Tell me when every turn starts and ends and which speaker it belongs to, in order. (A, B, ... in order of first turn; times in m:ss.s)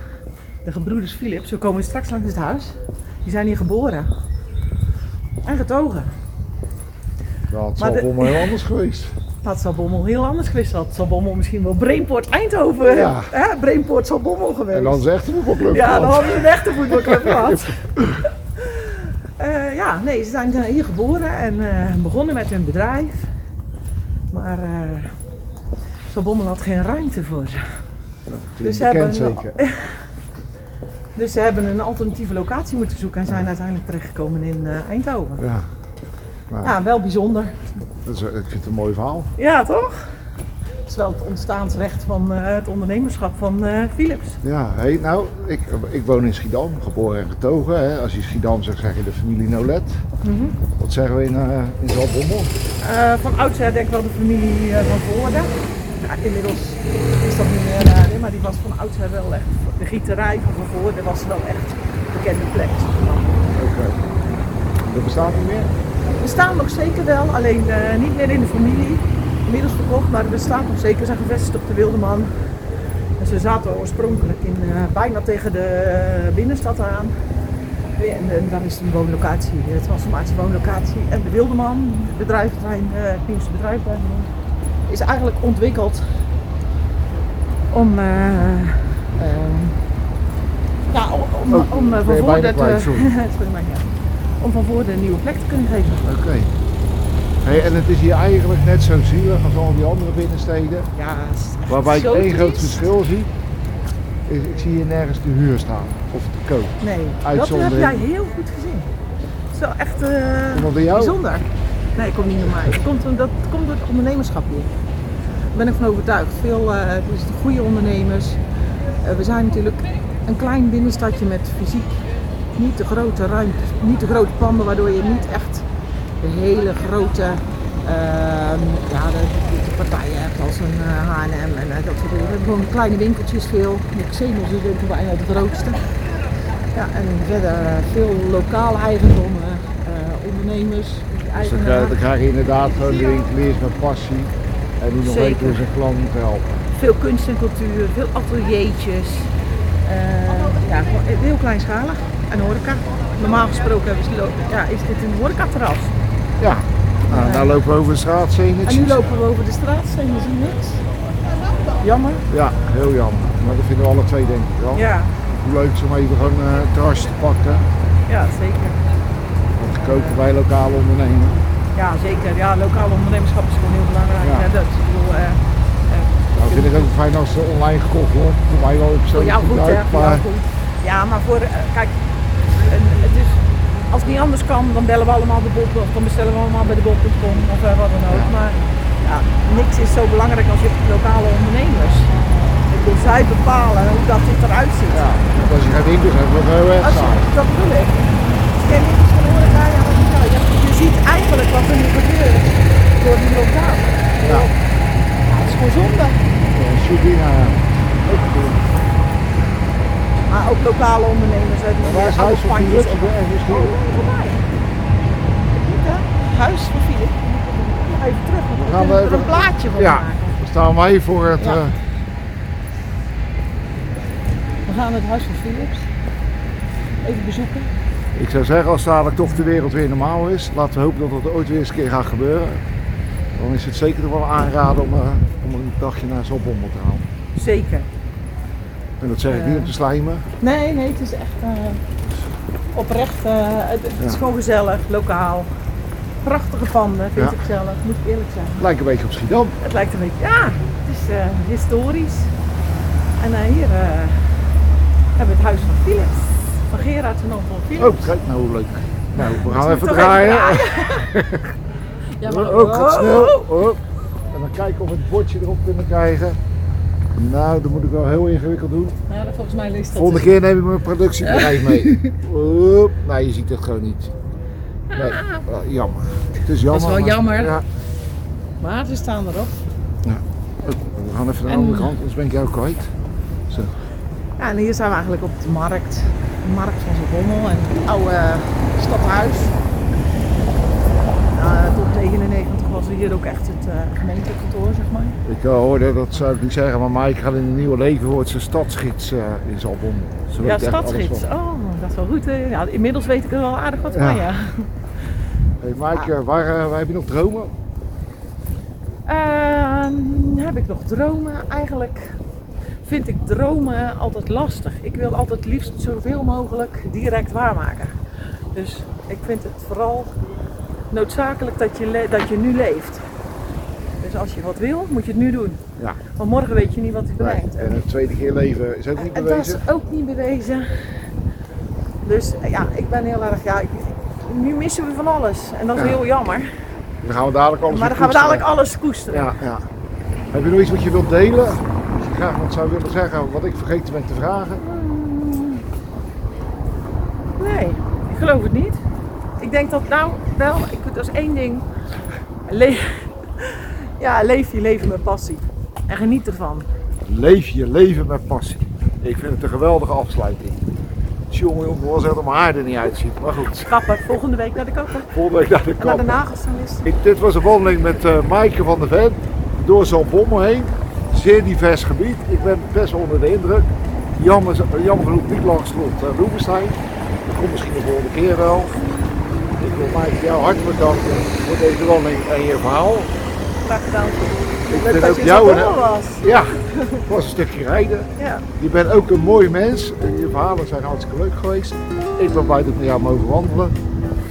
0:00.6-0:04.1 A
0:05.4-0:06.1 A
0:07.5-0:09.1 B
0:07.8-0:08.6 A
0:09.4-0:15.0 A
0:12.9-0:13.3 B
0:14.7-0:18.2 B
0:15.7-0:17.8 A
0:18.6-0:23.3 A
0:24.3-0:25.1 A
0:26.1-0:27.6 A
0:28.3-0:29.6 B
0:28.6-0:30.0 A
0:31.2-0:35.4 A
0:35.4-0:35.7 B
0:36.5-0:36.7 B
0:36.6-0:37.6 A
0:38.0-0:39.3 B
0:39.4-0:40.1 A
0:40.9-0:44.4 A
0:44.4-0:50.0 B
0:50.2-0:50.6 A
0:50.8-0:52.5 B
0:52.8-1:03.4 A
1:03.6-1:04.0 B
1:04.8-1:05.7 B
1:06.2-1:12.3 A
1:13.2-1:17.1 A
1:18.0-1:24.3 A
1:24.9-1:26.0 A
1:27.7-1:29.8 A
1:30.9-1:33.9 A
1:31.5-1:33.1 B
1:34.4-1:36.1 A
1:36.0-1:36.5 B
1:37.4-1:40.9 B
1:41.0-1:42.9 A
1:41.7-1:43.3 B
1:44.3-1:48.1 B
1:46.8-1:48.9 A
1:49.5-1:54.7 A
1:50.5-1:51.2 B
1:55.5-1:58.4 A
1:59.0-2:01.9 A
2:02.6-2:05.7 A
2:06.2-2:15.8 A
2:16.7-2:22.0 A
2:21.4-2:26.5 B
2:25.0-2:25.7 A
2:26.8-2:29.3 A
2:29.8-2:35.9 A
2:36.4-2:39.0 B
2:37.1-2:37.6 A
2:38.7-2:40.8 A
2:41.8-2:42.3 A
2:42.3-2:47.7 B
2:44.8-2:45.1 A
2:48.1-2:48.8 A
2:49.6-2:51.4 B
2:49.8-2:50.2 A
2:51.8-2:56.9 A
2:56.3-3:00.2 B
2:59.1-3:01.9 A
3:02.6-3:15.2 A
3:14.9-3:17.3 B
3:16.8-3:24.6 A
3:24.2-3:24.5 B
3:25.3-3:26.2 A
3:26.5-3:28.6 B
3:30.3-3:34.4 A
3:31.8-3:33.8 B
3:35.6-3:40.4 A
3:38.6-3:41.8 B
3:41.4-3:41.6 A
3:44.7-3:45.9 A
3:47.0-3:47.7 A
3:48.1-3:52.6 B
3:53.4-3:57.1 B
3:57.4-3:57.9 A
3:59.0-4:00.3 B
3:59.3-3:59.7 A
4:00.4-4:01.8 A
4:02.8-4:05.5 A
4:06.2-4:08.7 A
4:08.6-4:09.6 B
4:09.6-4:12.3 A
4:13.2-4:14.2 A
4:15.2-4:18.1 A
4:17.8-4:21.5 B
4:19.2-4:21.2 A
4:22.2-4:23.5 A
4:22.2-4:26.4 B
4:27.2-4:29.0 B
4:29.1-4:30.3 A
4:30.0-4:34.1 B
4:31.2-4:32.2 A
4:34.9-4:35.5 A
4:35.0-4:37.6 B
4:36.7-4:37.6 A
4:38.6-4:39.6 A
4:40.0-4:42.9 B
4:41.5-4:41.9 A
4:43.5-4:43.7 B
4:44.4-4:49.6 A
4:51.3-4:55.2 A
4:55.2-5:01.3 B
5:00.4-5:04.7 A
5:03.9-5:04.3 B
5:05.6-5:07.5 B
5:09.1-5:12.2 A
5:12.8-5:17.9 A
5:18.5-5:20.1 A
5:20.9-5:23.0 A
5:24.0-5:27.8 A
5:27.2-5:29.6 B
5:29.0-5:30.7 A
5:32.0-5:36.5 A
5:37.0-5:38.5 B
5:37.7-5:39.3 A
5:39.1-5:39.6 B
5:40.3-5:44.6 B
5:44.6-5:45.6 A
5:47.4-5:48.8 A
5:49.4-5:51.6 A
5:52.5-5:56.7 A
5:57.1-6:00.6 B
6:01.3-6:03.8 B
6:03.6-6:05.1 A
6:05.1-6:06.2 B
6:05.8-6:06.9 A
6:06.8-6:18.8 B
6:19.6-6:23.1 B
6:23.6-6:27.0 A
6:24.7-6:33.8 B
6:28.2-6:28.4 A